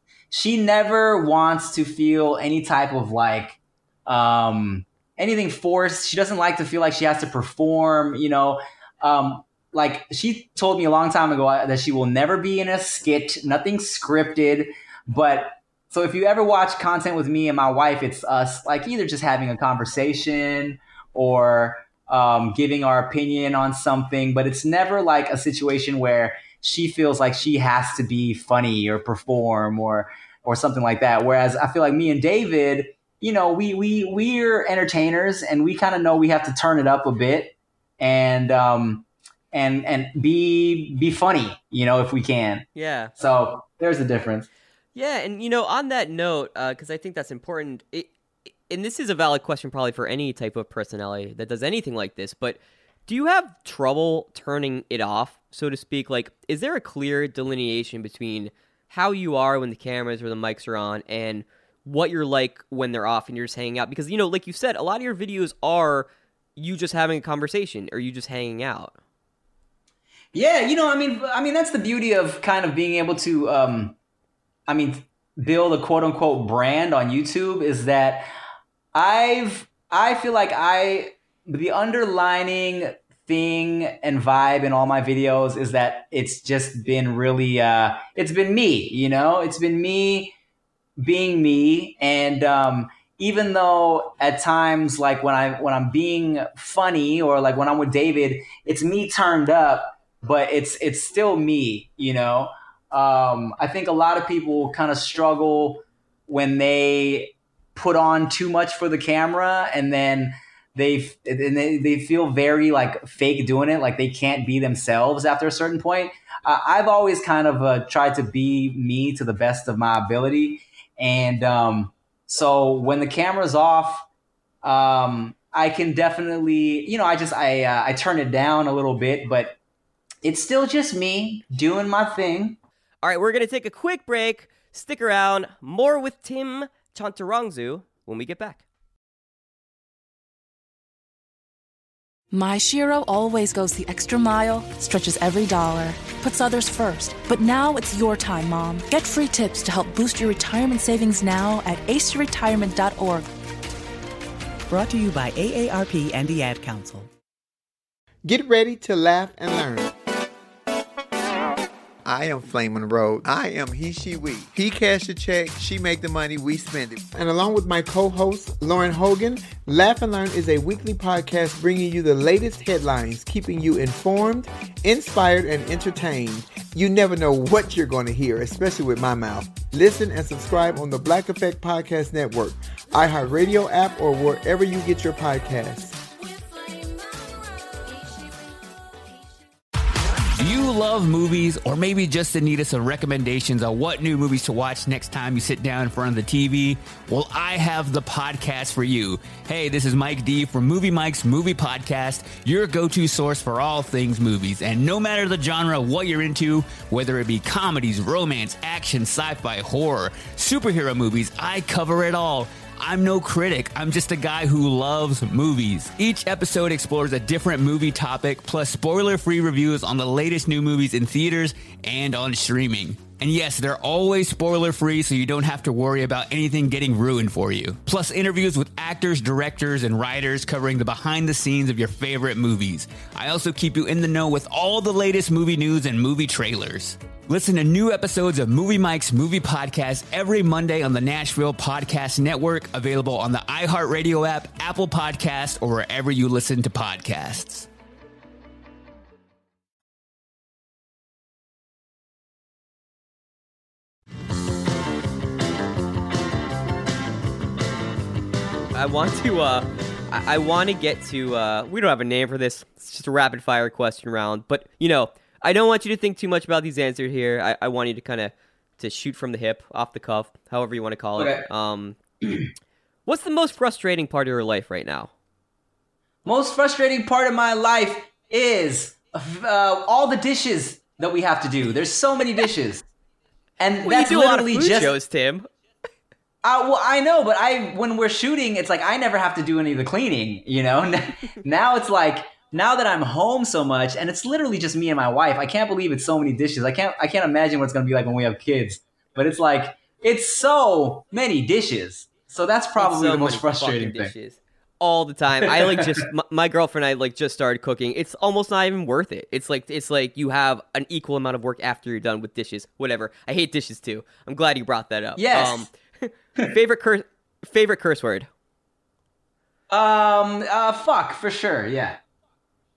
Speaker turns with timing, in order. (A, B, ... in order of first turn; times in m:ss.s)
0:00.3-0:42.6 A
0:42.7-0:43.1 B
0:43.2-0:44.5 A
0:44.9-0:48.1 B
0:48.7-1:08.9 B
1:10.3-1:14.0 A
1:14.7-1:18.3 A
1:18.9-1:30.3 A
1:31.0-2:04.1 A
2:04.6-2:09.6 A
2:10.2-2:12.6 A
2:13.0-2:18.6 B
2:22.3-2:33.3 C
2:34.7-2:37.1 D
2:38.2-2:39.9 E
2:42.0-3:06.0 E
3:10.4-4:07.7 F
4:18.7-4:32.0 B
4:31.2-4:31.4 A
4:33.0-4:35.1 B
4:36.2-4:42.8 A
4:43.6-4:44.9 A
4:43.8-4:45.5 B
4:46.4-5:04.1 A
5:02.8-5:18.3 B
5:05.4-5:06.0 A
5:15.2-5:15.7 A
5:19.7-5:22.0 A